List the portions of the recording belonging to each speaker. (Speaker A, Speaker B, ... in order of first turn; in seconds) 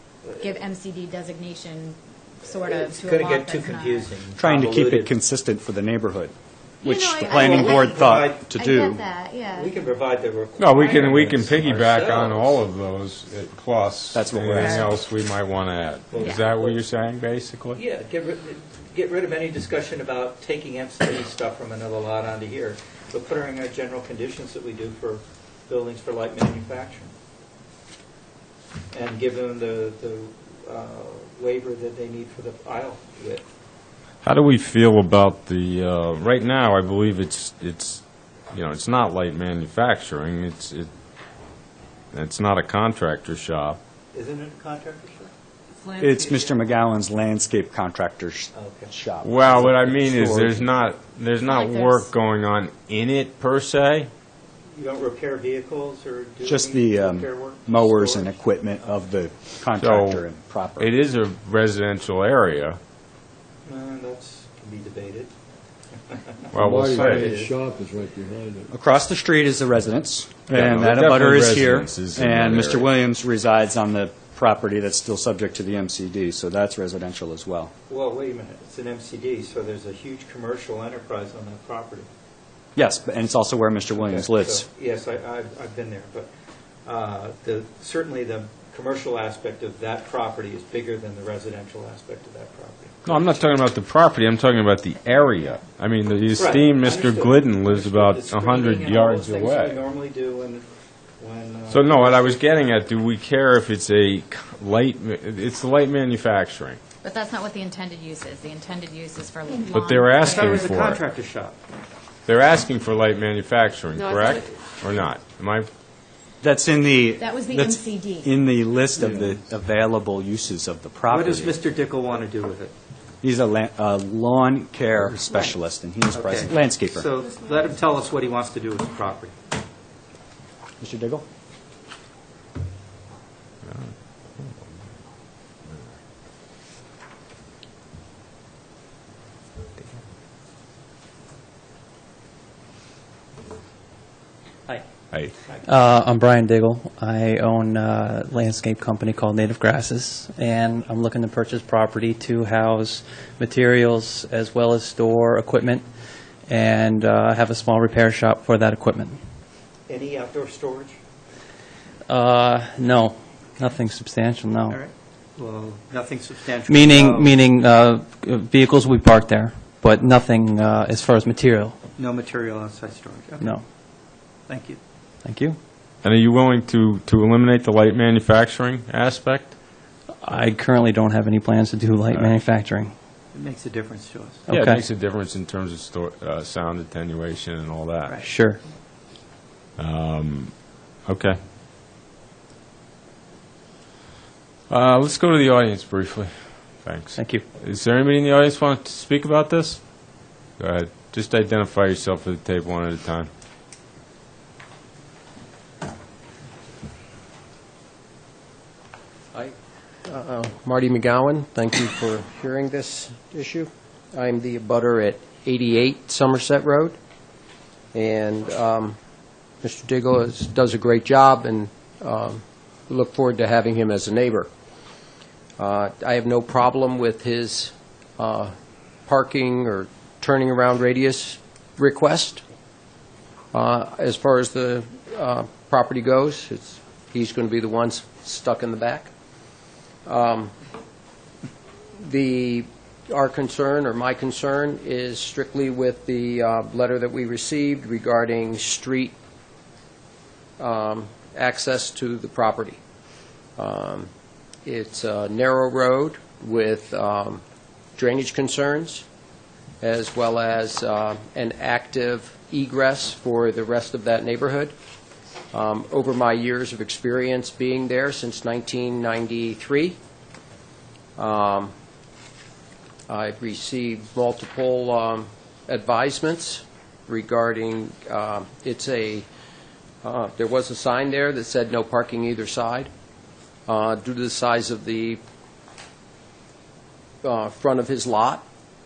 Speaker A: 0.3-0.6, 2.4-5.2, 7.3-8.5, 9.5-12.6, 16.1-16.8, 17.8-27.1, 28.9-33.5, 44.1-45.3, 48.5-48.9, 54.7-58.4, 63.7-65.3, 66.1-67.6, 77.9-82.1, 83.9-86.3, 86.8-93.2, 96.4-100.7, 101.2-102.5, 110.2-111.6, 121.1-122.7, 126.1-129.3, 159.9-161.0, 164.7-167.4, 172.0-173.6, 174.5-174.8, 183.3-184.5
Speaker B: 0.4-4.1, 6.8-7.9, 8.5-9.7, 45.8-46.7, 51.4-52.1, 107.0-110.8, 117.2-118.3
Speaker C: 4.4-9.0, 14.1-14.9, 46.0-50.7, 56.4-60.9, 68.7-77.7, 82.8-84.7, 116.4-121.6, 123.2-127.1, 130.8-131.2
Speaker D: 10.6-17.8, 34.2-40.9, 42.1-43.8, 49.2-54.1, 59.8-60.2, 60.8-62.8, 66.5-67.3, 70.5-72.9, 93.0-99.8, 101.7-106.8, 109.7-111.0, 112.3-115.7, 133.7-134.6, 176.0-179.6, 184.5-188.2, 189.8-191.4, 194.7-199.8, 200.6-203.3
Speaker E: 66.6-68.7
Speaker F: 145.4-155.9, 156.5-159.2, 162.1-164.8, 166.7-171.8, 175.2-175.6, 180.2-182.9, 184.5-184.8, 188.2-188.6, 197.2-197.4
Speaker G: 210.1-217.0, 217.9-219.0, 219.6-224.5, 225.6-228.5, 229.1-232.4, 233.5-239.1, 240.1-240.5, 242.0-249.2, 250.6-252.8, 253.6-254.1, 254.7-257.4, 258.0-259.1, 259.8-264.7, 265.5-270.0, 271.2-271.7, 273.1-279.3, 280.0-282.9, 283.7-285.2, 287.2-288.4